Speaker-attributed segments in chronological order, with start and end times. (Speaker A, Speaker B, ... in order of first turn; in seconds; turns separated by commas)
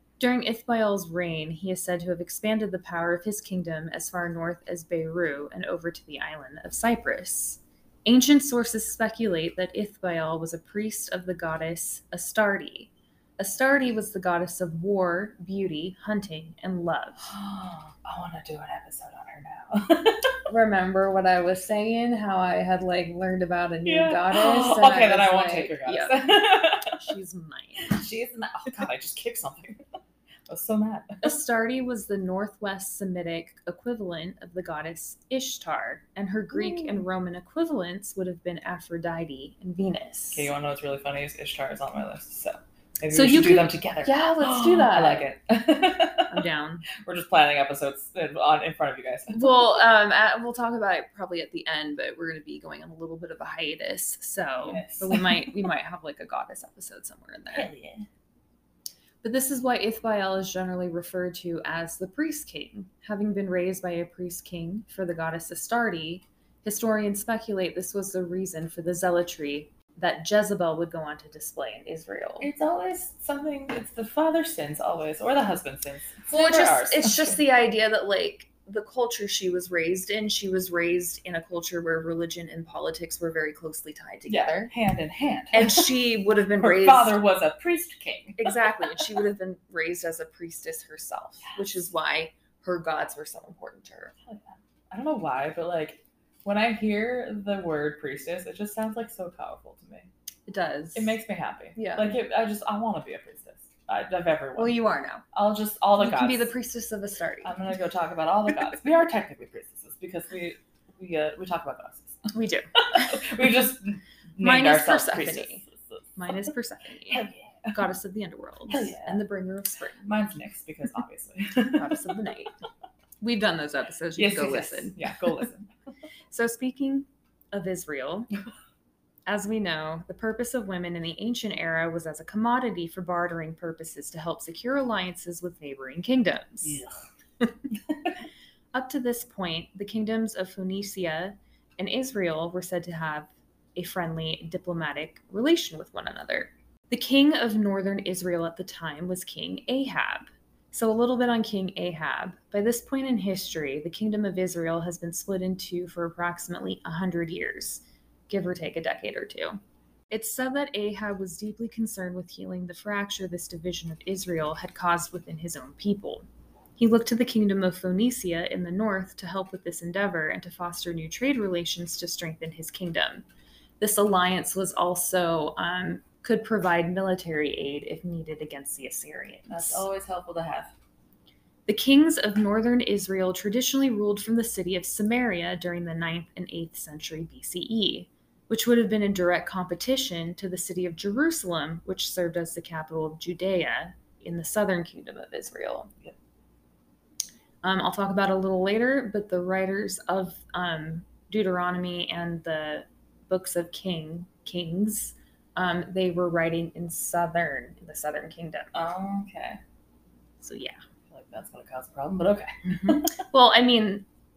Speaker A: 0.2-17.3, Speaker B: 17.2-20.3, Speaker A: 20.5-27.9, Speaker B: 23.9-27.0, Speaker B: 27.8-29.8, Speaker B: 30.5-31.3, Speaker A: 31.2-40.5, Speaker B: 36.5-37.0, Speaker B: 40.3-49.6, Speaker A: 43.1-45.3, Speaker A: 46.3-46.9, Speaker A: 49.3-57.7, Speaker B: 54.6-55.6, Speaker B: 57.5-58.1, Speaker A: 59.2-72.5, Speaker B: 72.4-77.4, Speaker A: 76.3-84.7, Speaker B: 84.3-85.9, Speaker A: 85.5-87.2, Speaker B: 86.6-89.1, Speaker A: 88.4-94.1, Speaker B: 94.3-100.1, Speaker A: 100.5-101.2, Speaker B: 100.9-104.8, Speaker A: 101.7-102.2, Speaker A: 104.6-105.2, Speaker B: 105.3-106.5, Speaker A: 106.0-107.5, Speaker B: 107.4-112.2, Speaker A: 112.3-113.3, Speaker B: 112.9-116.3, Speaker A: 114.4-120.1, Speaker B: 117.1-117.8, Speaker B: 118.7-119.2, Speaker B: 120.0-122.2, Speaker A: 121.7-122.5, Speaker A: 123.2-125.4, Speaker B: 124.2-125.7, Speaker A: 126.3-128.3, Speaker A: 129.3-136.8, Speaker B: 136.6-136.9, Speaker A: 138.7-159.6, Speaker A: 160.1-166.2, Speaker A: 166.8-173.2, Speaker A: 173.8-179.9, Speaker B: 179.5-180.7, Speaker A: 181.7-195.9, Speaker A: 197.6-208.7, Speaker B: 208.7-209.6, Speaker A: 210.4-210.8, Speaker B: 211.1-213.1, Speaker A: 212.7-214.1